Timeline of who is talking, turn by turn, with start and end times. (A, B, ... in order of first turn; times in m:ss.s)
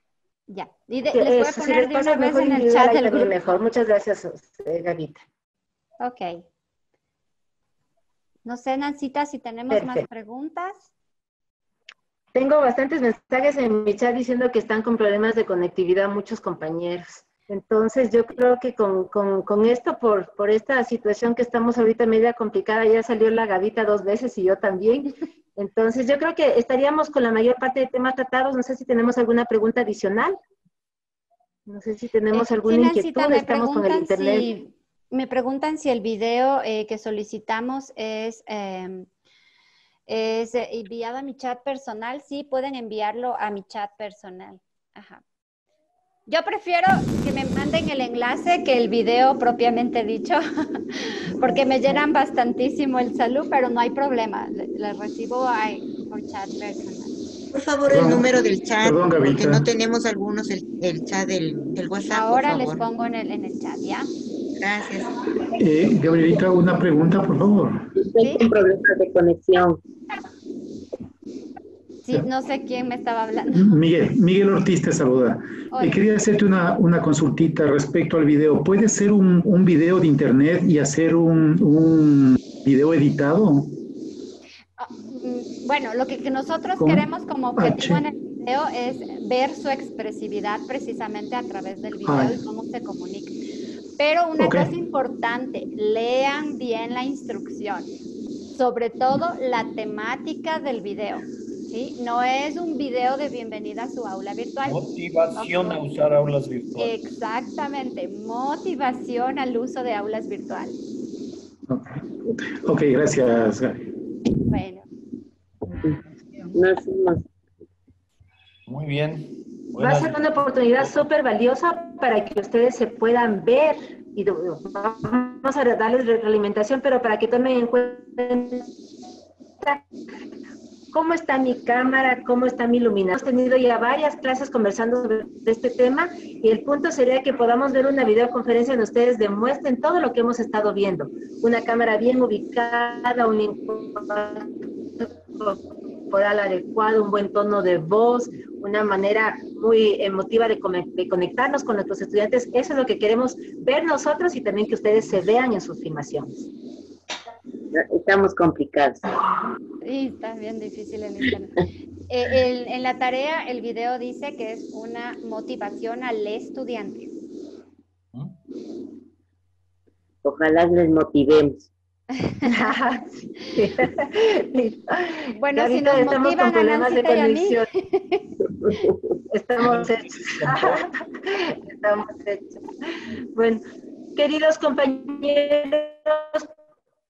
0:00.5-0:03.4 A
0:01.1-0:05.2 B
0:06.0-0:06.4 A
0:08.4-0:10.9 A
0:09.7-0:10.0 B
0:12.3-0:30.4 B
0:31.7-0:34.5 B
0:32.3-0:39.1 A
0:40.1-0:45.2 A
0:46.3-0:57.1 A
0:57.5-1:02.9 C
0:57.8-0:59.6 D
1:02.1-1:04.1 A
1:04.6-1:05.1 C
1:05.6-1:07.9 D
1:08.0-1:09.8 E
1:08.2-1:08.5 A
1:12.0-1:13.8 A
1:13.5-1:23.7 D
1:15.7-1:16.0 A
1:24.8-1:33.4 A
1:26.8-1:28.0 D
1:32.0-1:32.4 D
1:34.0-1:37.9 A
1:34.4-1:34.7 D
1:38.5-1:44.8 A
1:44.6-1:46.9 F
1:45.3-1:45.8 A
1:46.8-1:50.8 A
1:51.7-1:53.8 D
1:54.5-1:54.8 A
1:55.7-1:56.0 E
1:56.5-1:57.3 E
1:58.7-2:01.0 F
1:59.8-2:08.7 B
2:10.9-2:36.4 B
2:37.7-2:39.1 E
2:39.8-2:41.5 A
2:42.1-2:47.1 A
2:50.2-2:51.7 E
2:52.2-2:52.7 A
2:52.4-2:57.7 B
2:55.4-2:58.3 A
2:58.5-2:58.9 E
2:59.3-3:02.6 B
3:03.3-3:03.6 B
3:04.2-3:06.5 B